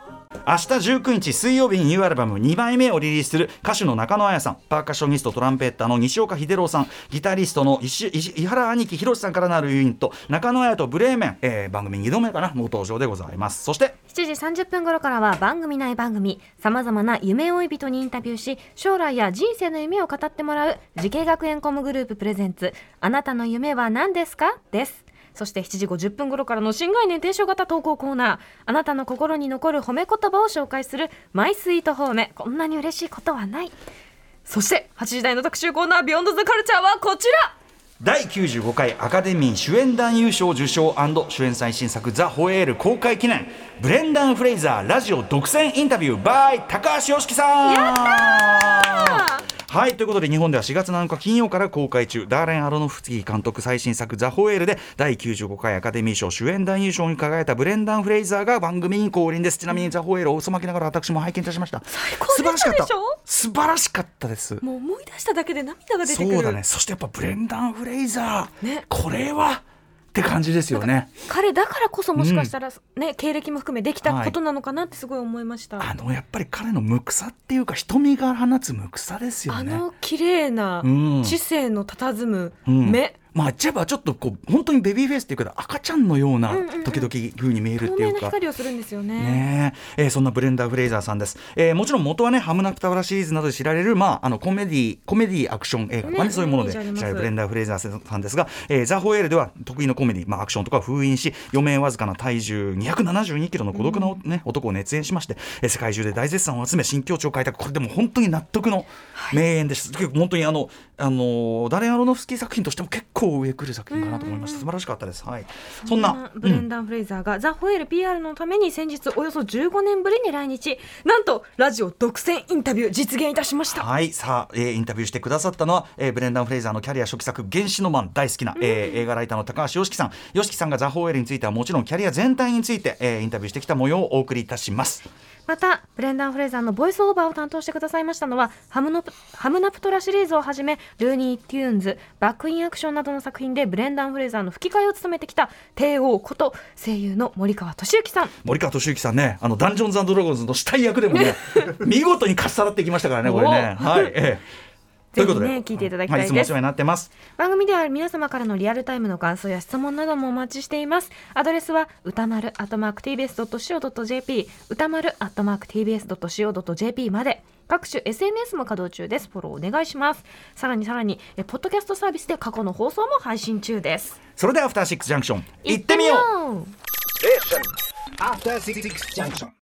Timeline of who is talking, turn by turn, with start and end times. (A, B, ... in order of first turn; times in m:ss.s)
0:00.4-0:14.0 A
0:14.1-0:33.8 B
0:34.5-0:37.5 B
0:38.0-1:04.6 A
0:47.6-0:49.5 B
1:01.9-1:03.2 B
1:04.6-1:06.6 B
1:06.0-1:11.1 A
1:10.7-1:15.9 B
1:12.2-1:12.5 A
1:14.0-1:14.4 A
1:15.8-1:19.8 A
1:19.5-1:23.2 B
1:20.8-1:21.4 A
1:22.7-1:28.4 A
1:26.5-1:27.1 B
1:27.8-1:29.4 B
1:29.2-1:56.7 A
1:36.0-1:37.3 B
1:43.7-1:44.2 B
1:49.2-1:49.4 B
1:53.9-1:54.7 B
1:55.8-2:03.9 B
2:03.7-2:15.1 A
2:08.6-2:09.0 B
2:15.5-2:28.3 B
2:28.4-2:34.4 A
2:31.2-2:31.6 B
2:33.2-2:34.1 B
2:35.1-2:36.6 B
2:35.2-2:37.1 A
2:37.3-2:54.2 B
2:54.4-2:56.3 A
2:55.6-2:56.7 B
2:57.2-2:59.5 C